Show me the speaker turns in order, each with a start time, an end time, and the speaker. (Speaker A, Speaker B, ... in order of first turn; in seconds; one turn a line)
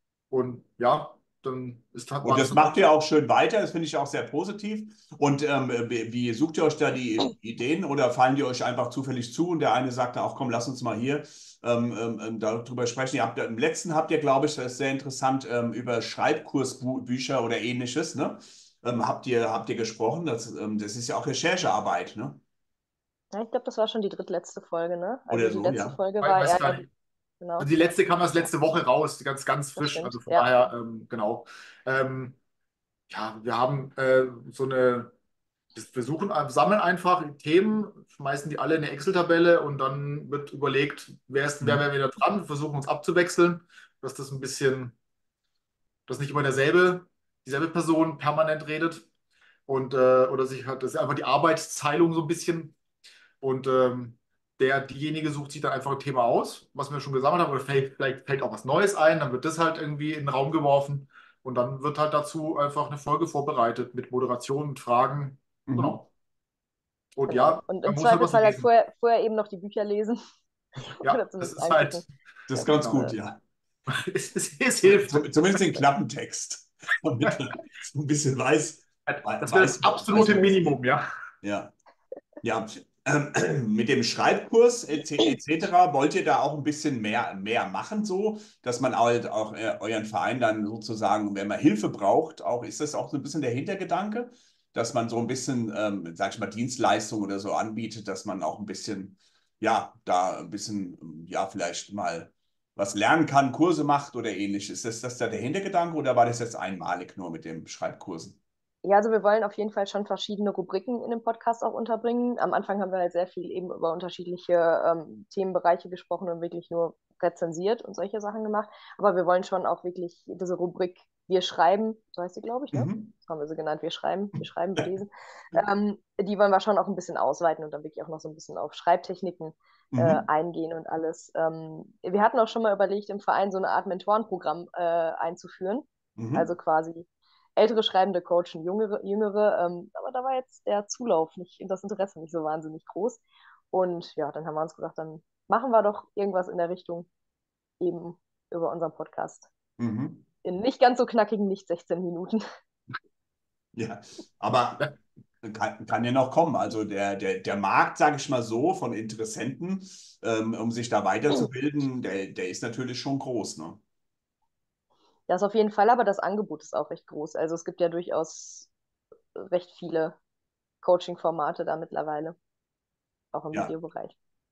Speaker A: 0.3-2.7
Speaker B: 2.2-22.4
Speaker C: 23.3-26.8
Speaker B: 25.3-26.0
Speaker A: 26.2-26.9
Speaker C: 27.4-27.7
Speaker A: 27.6-32.4
Speaker C: 29.8-30.5
Speaker A: 33.1-35.1
Speaker A: 35.8-45.0
Speaker A: 46.1-49.1
Speaker A: 49.7-52.8
Speaker A: 53.4-66.1
Speaker B: 65.7-66.0
Speaker A: 67.2-68.7
Speaker C: 67.3-70.2
Speaker C: 70.9-72.0
Speaker A: 71.0-72.1
Speaker B: 72.5-73.4
Speaker A: 72.7-73.1
Speaker A: 73.9-75.3
Speaker B: 74.8-80.7
Speaker A: 79.1-81.0
Speaker B: 81.4-81.7
Speaker B: 82.4-108.4
Speaker C: 108.8-147.1
Speaker B: 122.7-123.1
Speaker B: 129.9-130.2
Speaker B: 136.2-136.5
Speaker C: 147.8-149.5
Speaker B: 149.8-150.3
Speaker C: 150.4-152.4
Speaker B: 153.8-154.9
Speaker B: 155.4-163.8
Speaker C: 165.3-168.7
Speaker C: 169.4-170.2
Speaker C: 170.8-172.4
Speaker C: 173.3-174.1